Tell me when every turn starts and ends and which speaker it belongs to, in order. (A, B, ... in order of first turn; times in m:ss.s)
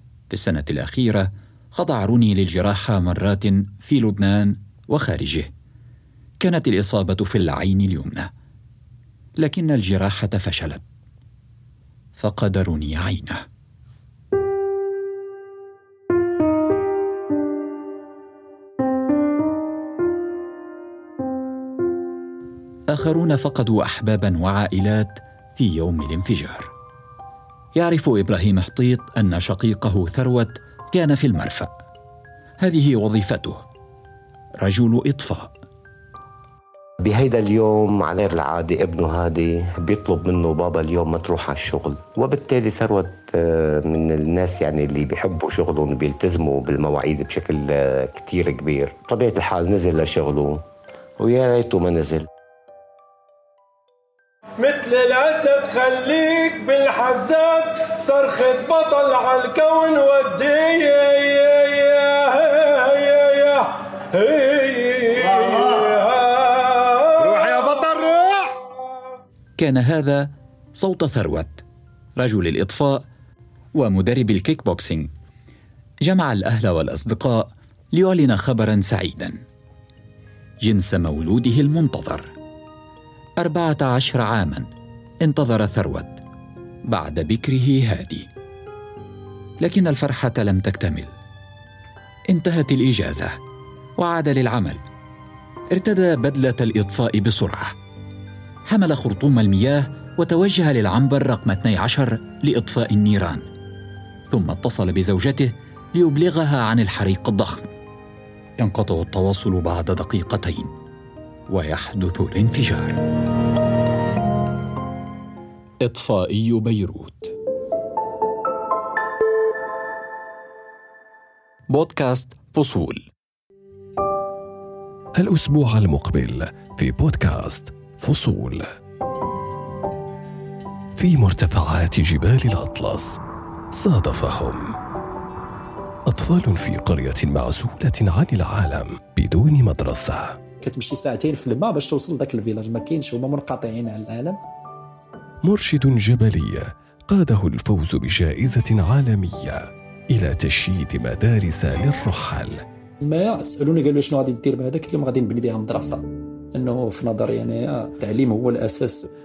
0:00.3-0:05.5 A
0:06.4-0:08.3 A
0:09.4-0:10.8 A
0:12.2-0:13.4 A
0:22.9-0:26.7 A
0:27.7-0:31.7 A
0:32.6-0:33.6 A
0:34.6-0:35.5 A
0:37.0-0:50.6 B
0:51.2-0:52.3 B
0:54.6-1:08.6 C
1:09.6-1:11.6 A
1:12.2-1:13.0 A
1:13.7-1:15.1 A
1:16.0-1:19.4 A
1:20.6-1:22.3 A
1:23.4-1:24.7 A
1:25.2-1:26.2 A
1:26.9-1:28.3 A
1:29.6-1:31.1 A
1:32.3-1:33.3 A
1:34.0-1:34.8 A
1:35.7-1:37.7 A
1:38.6-1:43.4 A
1:44.3-1:47.7 A
1:48.6-1:50.7 A
1:51.5-1:53.0 A
1:55.8-1:57.3 A
2:01.7-2:03.0 A
2:05.2-2:08.6 D
2:11.0-2:13.2 D
2:13.7-2:14.8 D
2:16.1-2:20.4 D
2:20.6-2:24.4 E
2:25.4-2:32.6 D
2:33.0-2:39.1 E